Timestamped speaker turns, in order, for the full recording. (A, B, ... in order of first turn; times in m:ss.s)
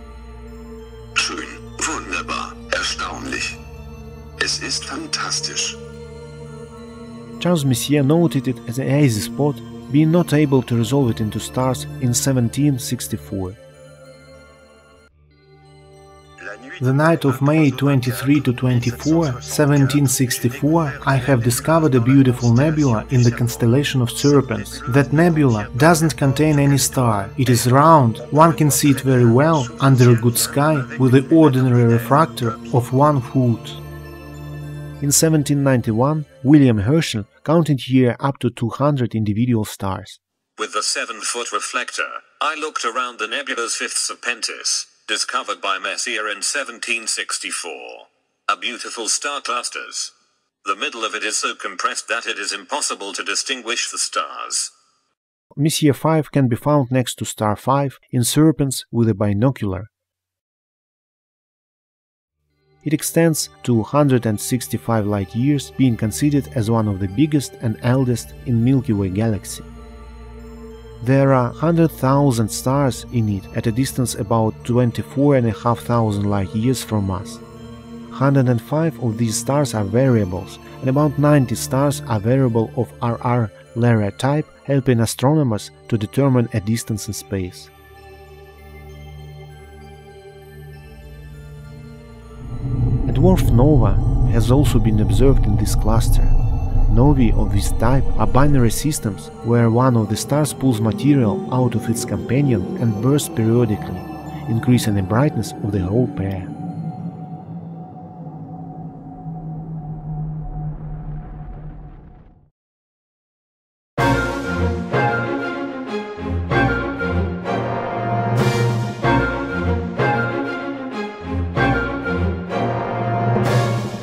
0:01.2-0:03.5 A
0:04.4-0:05.8 A
0:07.4-0:13.6 B
0:16.4-0:32.8 A
0:16.8-0:33.8 B
0:35.0-0:40.2 B
0:40.6-0:54.7 C
0:55.5-0:59.9 B
1:02.8-1:09.7 B
1:11.0-1:17.4 B
1:18.1-1:27.7 B
1:33.1-1:36.4 B
1:36.9-1:46.5 B